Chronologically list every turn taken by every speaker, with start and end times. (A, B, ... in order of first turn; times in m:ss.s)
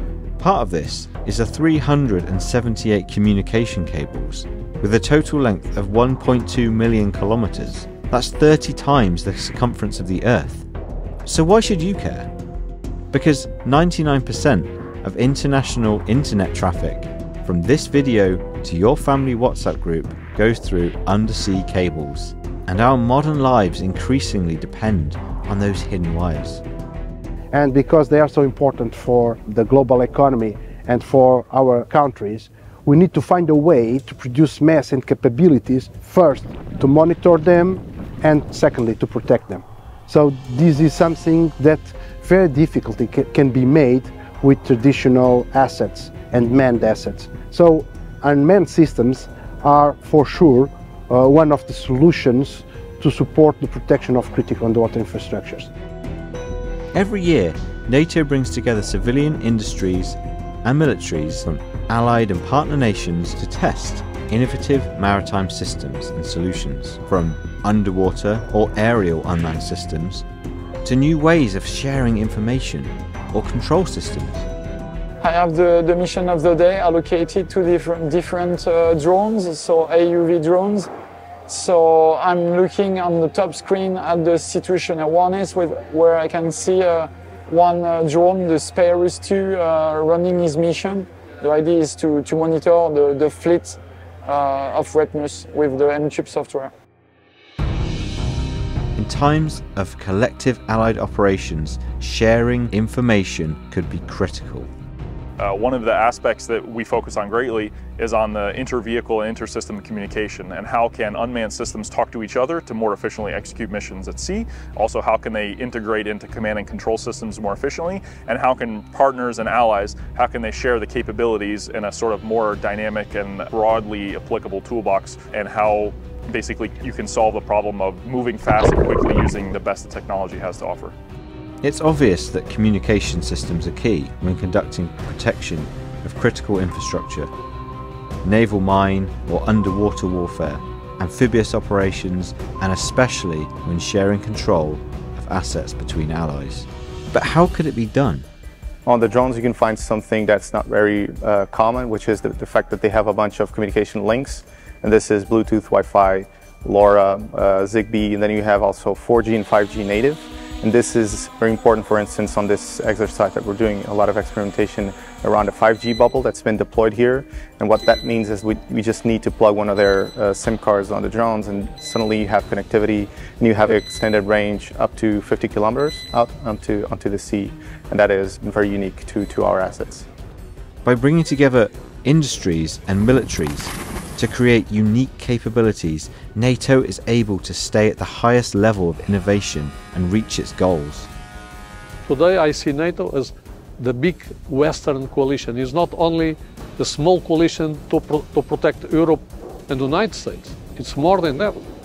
0:00.4-0:10.7 A
0:11.2-0:12.3 A
0:13.1-0:26.6 A
0:27.5-0:55.7 B
0:56.9-1:10.2 A
1:10.8-1:14.4 A
1:15.2-1:20.9 C
1:21.5-1:36.7 C
1:39.0-1:44.7 A
1:45.4-2:11.0 D
2:11.6-2:17.3 A
2:18.2-2:28.3 A
2:28.9-3:00.1 E
3:00.8-3:11.1 A
3:12.1-3:21.6 F